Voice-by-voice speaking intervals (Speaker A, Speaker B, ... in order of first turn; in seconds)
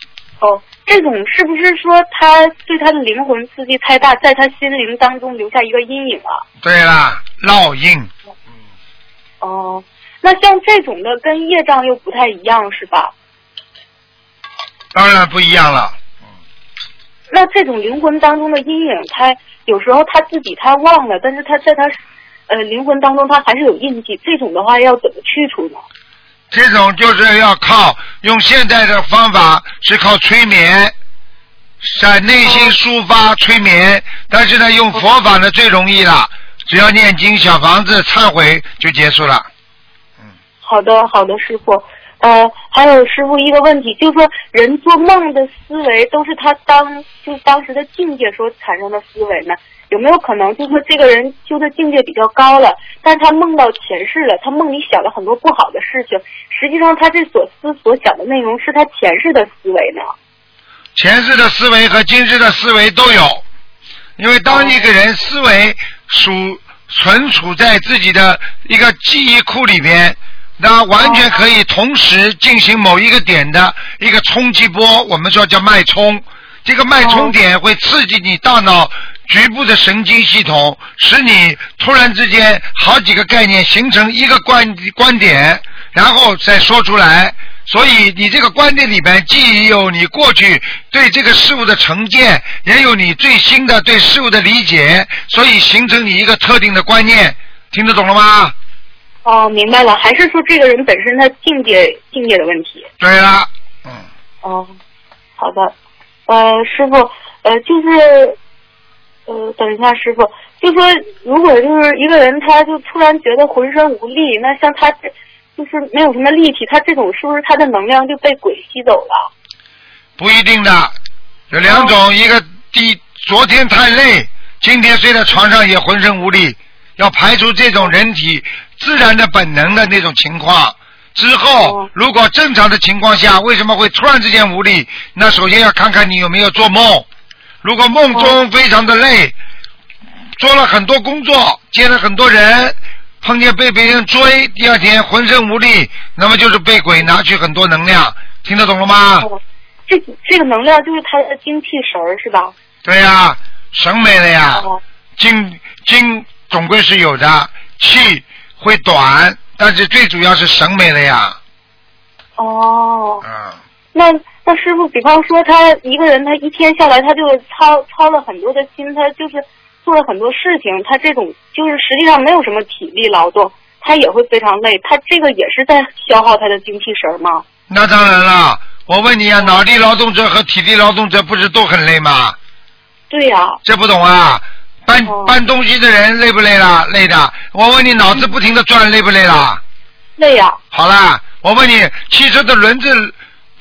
Speaker A: 0.4-6.4, 9.4-13.1, 17.3-25.8, 32.4-32.7, 40.6-60.1, 64.5-64.8, 71.0-71.4, 77.0-77.3, 99.2-102.9, 104.4-104.8, 105.4-105.7, 106.3-108.4, 109.3-119.3, 121.7-121.9, 131.6-131.9, 149.2-152.5, 154.5-154.8, 162.4-163.2, 163.9-177.4, 183.1-183.6, 185.1-185.3, 190.2-190.6
Speaker B: 6.6-8.1, 14.9-16.0, 26.5-30.9, 31.8-39.5, 61.0-63.4, 64.2-98.5, 103.0-104.0, 120.2-121.0, 121.5-137.1, 137.6-139.3, 140.4-149.3, 152.8-161.4, 163.2-163.6, 177.7-182.3, 183.6-189.6, 190.7-193.1